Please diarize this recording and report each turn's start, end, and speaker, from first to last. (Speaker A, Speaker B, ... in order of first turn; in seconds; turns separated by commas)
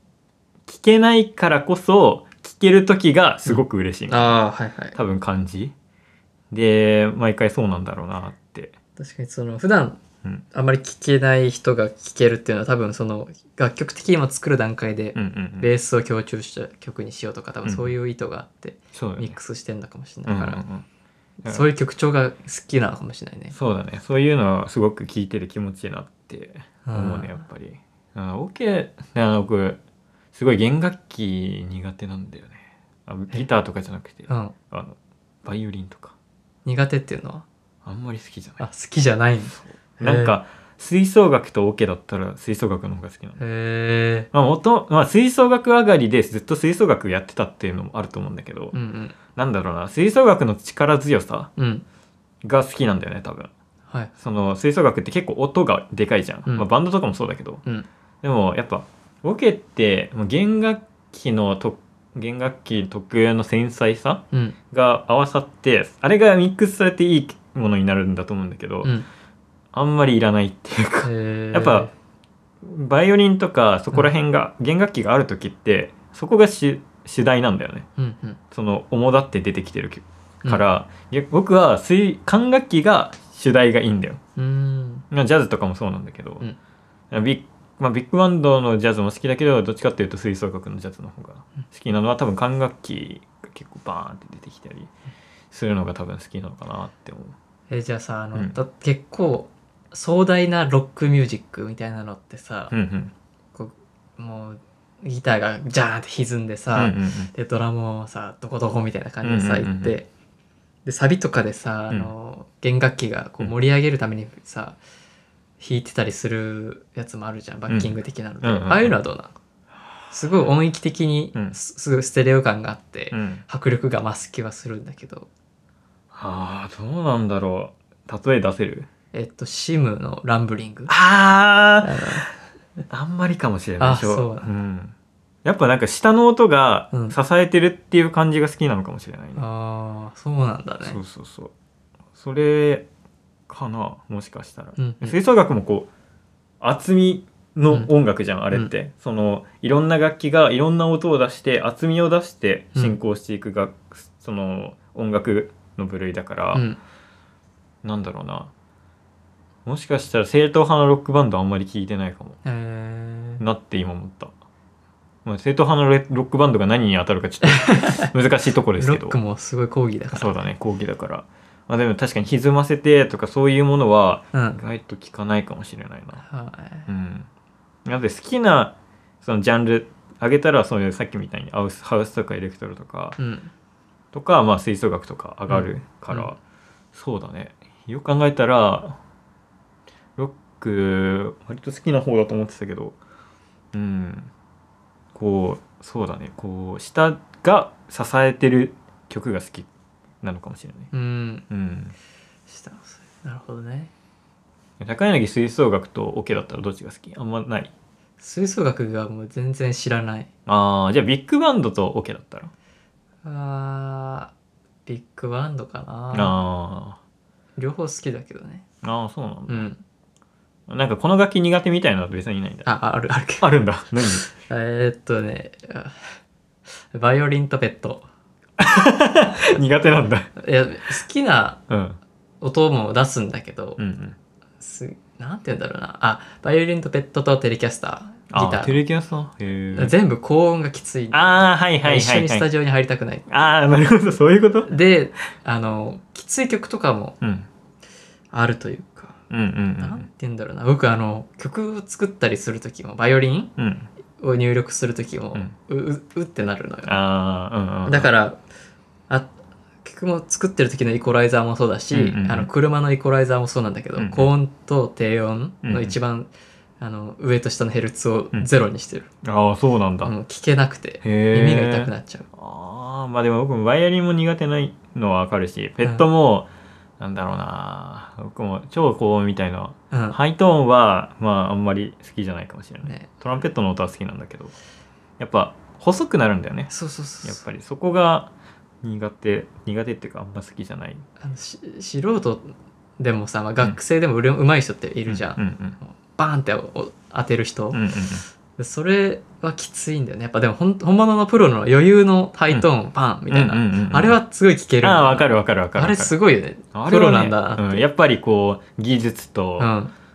Speaker A: 0.7-4.3, Speaker B: 3.5-5.0, Speaker A: 4.9-5.7, Speaker A: 6.5-8.8, Speaker B: 9.0-10.0, Speaker B: 10.5-20.6, Speaker A: 15.1-15.7, Speaker A: 17.6-17.9, Speaker A: 18.9-19.4, Speaker A: 20.3-20.9, Speaker B: 21.4-23.5, Speaker A: 23.5-29.8, Speaker B: 26.8-27.4, Speaker A: 30.3-36.1, Speaker B: 34.3-34.5, Speaker B: 36.6-37.4, Speaker A: 37.8-38.6, Speaker B: 38.6-40.4, Speaker A: 39.5-43.4, Speaker B: 43.4-44.3, Speaker A: 44.3-48.7, Speaker B: 48.7-49.1, Speaker A: 49.3-51.5, Speaker B: 51.6-51.8, Speaker A: 52.4-53.5, Speaker A: 54.2-57.6, Speaker A: 58.2-68.9, Speaker A: 69.7-71.9, Speaker B: 71.0-71.9, Speaker A: 72.6-77.9, Speaker B: 78.0-78.4, Speaker A: 78.5-84.2, Speaker B: 84.4-85.0, Speaker A: 85.1-86.4, Speaker A: 87.1-94.9, Speaker A: 95.5-97.3, Speaker B: 97.7-102.7, Speaker A: 102.7-103.1, Speaker B: 103.5-110.1, Speaker A: 106.7-107.3, Speaker A: 109.2-109.9, Speaker B: 110.8-114.8, Speaker B: 115.6-119.3, Speaker A: 117.7-119.0, Speaker B: 120.1-125.3, Speaker A: 123.1-123.4, Speaker A: 126.1-128.9, Speaker B: 129.1-130.9, Speaker A: 130.9-132.2, Speaker B: 131.8-132.3, Speaker A: 132.9-139.4, Speaker B: 133.8-134.5, Speaker B: 139.3-141.0, Speaker A: 140.8-141.5, Speaker A: 142.2-142.9, Speaker A: 143.5-145.9, Speaker B: 144.8-145.2, Speaker A: 146.6-156.6, Speaker B: 152.7-153.0, Speaker B: 156.5-156.8, Speaker A: 157.8-158.5, Speaker A: 159.6-162.4, Speaker B: 162.4-163.4, Speaker A: 163.4-164.3, Speaker A: 165.2-169.2, Speaker B: 167.4-168.1, Speaker B: 168.8-170.4, Speaker A: 170.1-176.2, Speaker B: 174.3-174.6, Speaker B: 176.2-176.9, Speaker A: 176.9-177.3, Speaker A: 177.8-183.2, Speaker B: 183.2-183.5, Speaker A: 184.1-186.4, Speaker B: 185.5-186.3, Speaker A: 186.9-189.0, Speaker A: 190.2-193.0, Speaker A: 193.7-194.3, Speaker A: 195.1-199.7, Speaker A: 200.2-200.9, Speaker B: 200.9-201.4, Speaker A: 201.5-201.9, Speaker B: 202.5-203.9, Speaker A: 204.8-207.7, Speaker B: 208.2-210.3, Speaker A: 210.4-212.5, Speaker B: 213.2-214.3, Speaker B: 214.8-216.4, Speaker A: 216.1-217.0, Speaker B: 217.6-218.6, Speaker A: 218.8-219.7, Speaker B: 219.5-219.8, Speaker A: 220.7-222.7, Speaker B: 222.7-223.5, Speaker A: 223.4-224.3, Speaker B: 224.3-226.1, Speaker B: 226.7-228.1, Speaker A: 228.6-230.3, Speaker B: 230.4-231.6, Speaker A: 231.7-232.0, Speaker B: 232.4-233.8, Speaker A: 233.8-234.2, Speaker B: 234.6-238.8, Speaker A: 238.3-239.9, Speaker B: 239.7-243.3, Speaker A: 241.1-242.5, Speaker A: 243.3-244.8, Speaker B: 244.7-247.2, Speaker A: 247.2-247.5, Speaker B: 248.3-249.2, Speaker A: 249.3-250.1, Speaker B: 249.8-253.5, Speaker A: 253.6-253.9, Speaker B: 254.2-257.0, Speaker A: 256.9-258.1, Speaker B: 257.9-258.4, Speaker B: 259.8-269.1, Speaker A: 261.9-262.5, Speaker A: 263.9-264.3, Speaker A: 265.6-265.9, Speaker A: 269.2-270.1, Speaker B: 270.0-272.2, Speaker A: 271.0-284.5, Speaker B: 279.9-280.2, Speaker B: 282.8-283.1, Speaker A: 285.2-288.3, Speaker B: 286.7-287.4, Speaker A: 288.8-291.0, Speaker B: 291.2-297.8, Speaker A: 295.1-295.8, Speaker A: 297.7-298.2, Speaker B: 298.6-307.9, Speaker A: 303.3-304.2, Speaker A: 304.8-306.1, Speaker A: 306.7-309.7, Speaker B: 309.6-309.9